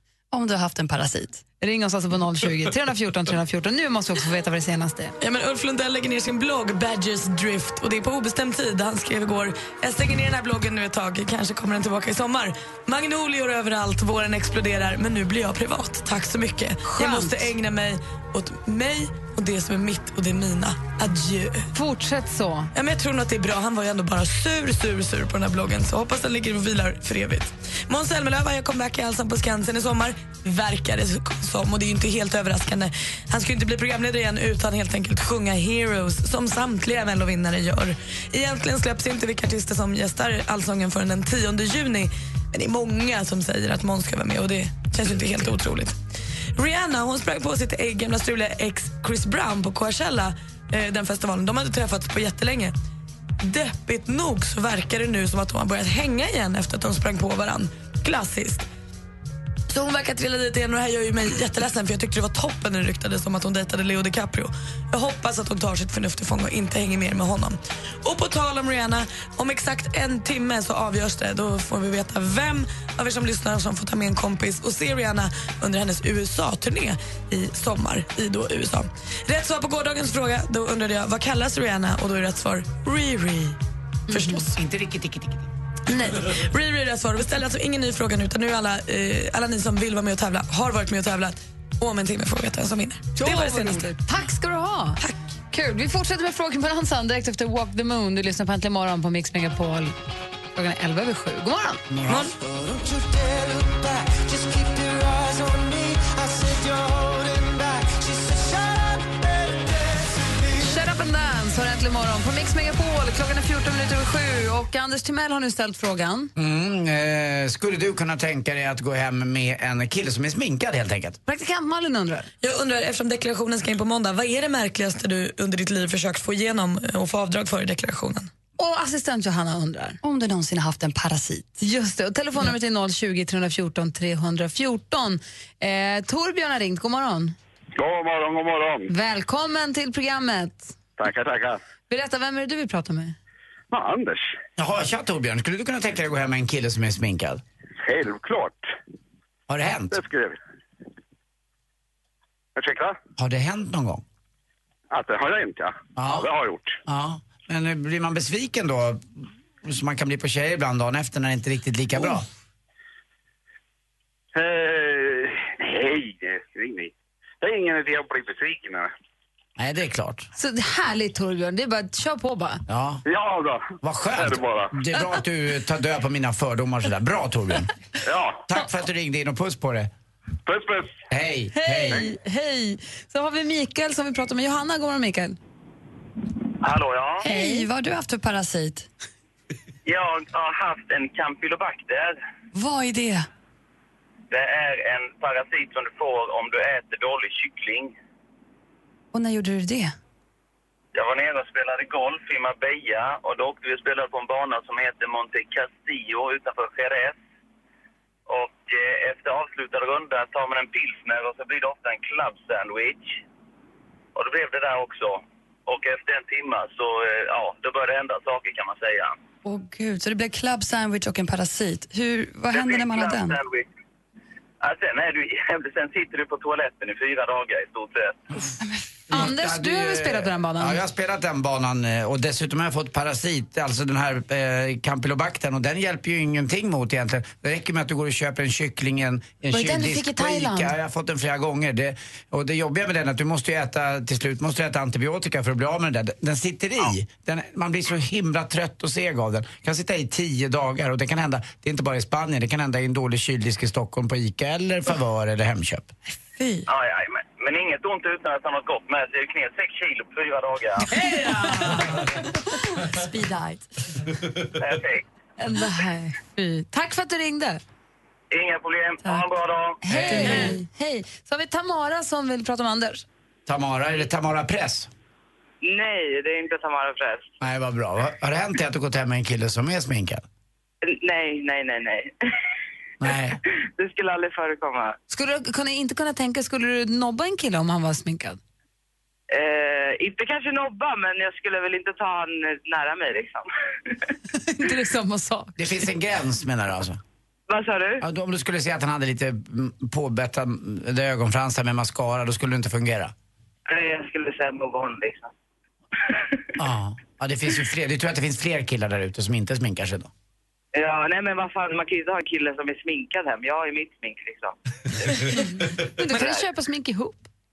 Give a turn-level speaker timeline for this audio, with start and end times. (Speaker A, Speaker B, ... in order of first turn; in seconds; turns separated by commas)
Speaker A: 0.3-1.4, Speaker B: 1.6-5.1, Speaker C: 5.2-21.7, Speaker B: 16.9-17.5, Speaker B: 21.7-22.7, Speaker C: 22.7-46.0, Speaker C: 46.5-52.7, Speaker C: 53.4-58.6, Speaker C: 59.7-83.6, Speaker C: 84.1-84.4, Speaker D: 84.3-85.5, Speaker B: 85.9-86.2, Speaker C: 86.1-93.9, Speaker B: 93.2-95.0, Speaker B: 95.5-99.9, Speaker B: 100.5-101.8, Speaker D: 101.9-102.3, Speaker C: 102.0-102.3, Speaker B: 110.5-116.3, Speaker D: 116.4-121.2, Speaker B: 121.2-122.3, Speaker C: 122.4-128.3, Speaker B: 128.6-130.0, Speaker A: 130.0-131.6, Speaker B: 131.6-137.3, Speaker E: 137.8-138.9, Speaker B: 138.9-140.7, Speaker E: 141.0-141.6, Speaker B: 141.9-143.2, Speaker E: 143.7-144.3, Speaker D: 144.6-147.4, Speaker E: 147.8-148.7, Speaker D: 149.5-150.0, Speaker E: 149.9-150.4, Speaker E: 152.6-153.0, Speaker D: 153.2-154.0, Speaker E: 154.9-156.8, Speaker D: 155.9-156.3, Speaker D: 156.8-162.3, Speaker E: 164.3-168.9, Speaker D: 169.6-170.3, Speaker B: 170.3-172.6, Speaker D: 172.7-173.0, Speaker E: 173.0-174.7, Speaker D: 173.8-177.7, Speaker E: 178.0-178.4, Speaker D: 178.4-179.9, Speaker E: 180.4-181.0, Speaker D: 181.1-182.0, Speaker B: 181.5-185.4, Speaker F: 186.6-187.2, Speaker A: 187.2-188.9, Speaker B: 187.2-187.6, Speaker F: 189.8-192.2, Speaker A: 192.5-193.3, Speaker F: 194.3-197.9, Speaker A: 199.1-199.9, Speaker F: 200.9-207.2, Speaker F: 208.3-213.2, Speaker F: 214.1-219.2, Speaker A: 219.4-223.4, Speaker F: 222.5-223.7, Speaker F: 224.6-228.2, Speaker D: 229.1-255.9, Speaker B: 229.1-230.8, Speaker B: 239.5-240.7, Speaker A: 256.4-256.6, Speaker F: 256.7-260.9, Speaker D: 261.6-262.0, Speaker B: 261.6-262.0, Speaker A: 262.9-263.6, Speaker F: 264.6-265.0, Speaker B: 265.4-267.6, Speaker F: 268.3-269.8, Speaker B: 269.8-273.0, Speaker D: 269.9-270.6, Speaker D: 273.5-274.9, Speaker G: 275.6-277.3, Speaker D: 277.4-280.2, Speaker G: 280.8-282.1, Speaker D: 283.0-283.4, Speaker G: 283.8-284.9, Speaker B: 285.1-288.4, Speaker G: 289.3-293.5, Speaker B: 294.3-295.6, Speaker D: 295.6-297.0, Speaker G: 297.5-298.0, Speaker D: 298.0-303.1, Speaker G: 303.7-305.3, Speaker D: 306.6-310.1, Speaker G: 310.7-314.6, Speaker B: 315.5-317.3, Speaker G: 316.1-316.4